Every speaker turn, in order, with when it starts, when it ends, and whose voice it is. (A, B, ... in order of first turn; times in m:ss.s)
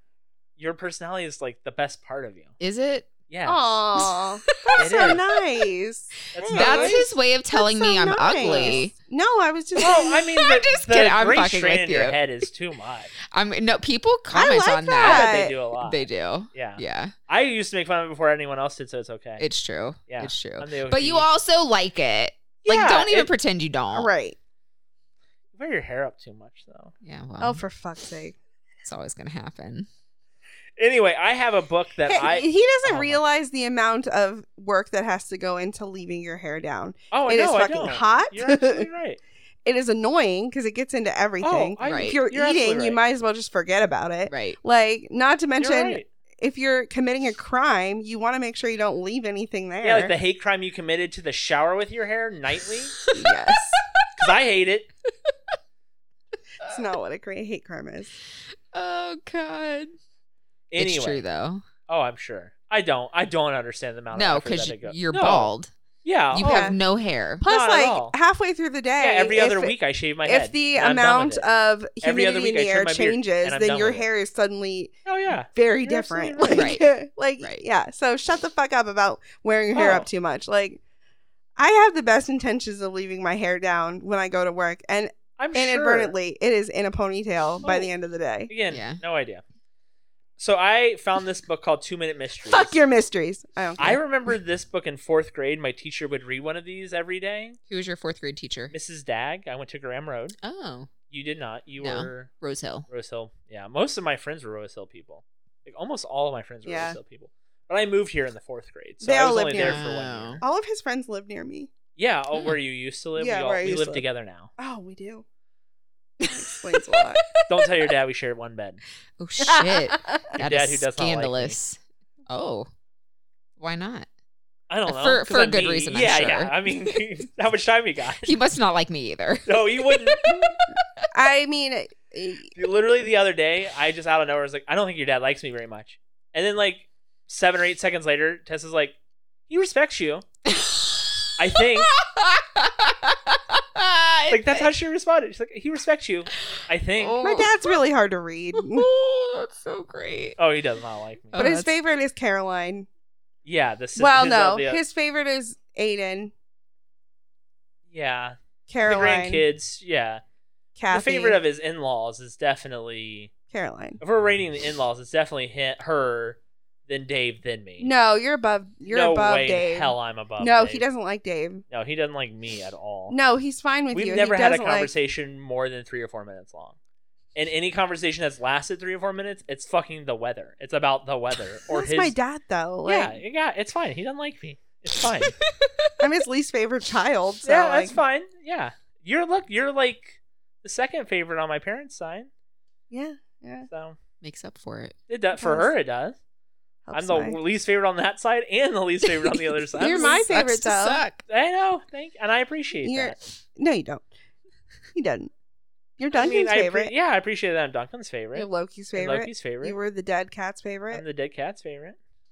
0:00.6-0:02.5 A
0:02.6-0:03.1 B
0:03.3-0:03.6 A
0:03.4-0:10.3 C
0:04.0-0:05.4 B
0:04.8-0:05.2 A
0:06.3-0:07.0 A
0:06.5-0:08.9 B
0:08.4-0:08.8 A
0:09.8-0:12.2 B
0:09.8-0:13.1 A
0:13.3-0:17.1 B
0:14.3-0:15.5 C
0:15.0-0:19.4 A
0:19.4-0:24.1 B
0:20.1-0:21.3 A
0:22.6-0:23.3 A
0:23.9-0:24.4 C
0:25.5-0:26.9 A
0:27.0-0:27.6 B
0:27.4-0:28.4 C
0:28.8-0:29.9 B
0:30.8-0:33.2 A
0:32.1-0:38.9 C
0:37.1-0:39.2 A
0:39.6-0:50.1 C
0:41.4-0:43.0 A
0:41.8-0:42.2 B
0:44.3-0:44.6 B
0:45.6-0:46.1 A
0:49.8-0:52.9 A
0:53.0-0:54.2 B
0:53.1-0:53.8 C
0:54.2-0:54.9 A
0:56.6-0:58.1 C
0:58.7-0:59.9 B
1:00.7-1:01.2 A
1:00.8-1:01.6 B
1:01.9-1:05.5 A
1:04.1-1:05.7 B
1:06.0-1:06.7 A
1:06.3-1:07.4 B
1:06.4-1:06.8 C
1:07.4-1:09.7 C
1:07.4-1:08.1 A
1:09.0-1:11.4 A
1:10.2-1:15.0 C
1:12.0-1:14.0 A
1:15.0-1:16.8 A
1:15.5-1:20.8 C
1:16.5-1:16.8 B
1:19.7-1:20.1 A
1:21.6-1:28.5 C
1:25.4-1:26.1 A
1:27.6-1:27.9 A
1:28.5-1:29.4 A
1:28.7-1:29.0 B
1:30.4-1:32.8 A
1:32.5-1:34.0 C
1:33.8-1:37.6 A
1:37.7-1:38.7 B
1:38.7-1:40.4 A
1:40.4-1:40.9 B
1:41.1-1:42.3 A
1:41.8-1:42.9 B
1:42.9-1:50.4 A
1:46.6-1:47.0 C
1:49.0-1:49.9 C
1:49.6-1:50.4 B
1:50.4-1:51.7 C
1:52.0-1:54.5 A
1:53.2-1:54.0 C
1:54.6-1:55.2 C
1:56.3-1:57.3 C
1:57.0-1:57.4 B
1:57.5-1:58.8 A
1:59.2-2:02.7 B
1:59.4-2:00.4 C
2:00.4-2:01.6 A
2:03.6-2:04.1 B
2:04.7-2:08.4 A
2:04.9-2:06.7 B
2:08.2-2:11.0 B
2:09.4-2:10.5 A
2:11.1-2:12.5 C
2:12.5-2:19.0 A
2:19.5-2:20.2 A
2:20.4-2:24.7 B
2:21.4-2:21.9 A
2:24.3-2:27.2 A
2:27.0-2:27.8 B
2:27.2-2:28.9 C
2:28.5-2:30.4 B
2:30.4-2:31.5 A
2:31.3-2:31.7 B
2:31.4-2:32.9 C
2:33.4-2:34.8 A
2:34.0-2:36.3 C
2:37.9-2:40.2 A
2:38.7-2:39.4 C
2:40.8-2:41.4 C
2:40.9-2:43.3 A
2:43.5-2:44.0 C
2:44.0-2:47.9 A
2:47.8-2:51.6 C
2:48.9-2:50.8 A
2:51.7-2:53.2 A
2:53.1-2:54.9 C
2:53.9-2:56.8 A
2:57.3-3:02.1 A
3:01.7-3:03.2 C
3:02.8-3:05.4 A
3:05.2-3:05.9 B
3:06.0-3:08.0 C
3:07.4-3:12.3 A
3:12.9-3:13.7 C
3:13.7-3:14.0 A
3:14.2-3:15.0 B
3:15.1-3:16.2 A
3:15.4-3:15.7 C
3:16.9-3:17.4 C
3:16.9-3:20.2 A
3:19.2-3:21.2 B
3:19.8-3:21.0 C
3:21.2-3:23.2 A
3:22.8-3:24.1 C
3:24.9-3:25.3 C
3:26.0-3:26.9 C
3:26.1-3:29.8 A
3:28.3-3:31.0 C
3:30.9-3:32.0 A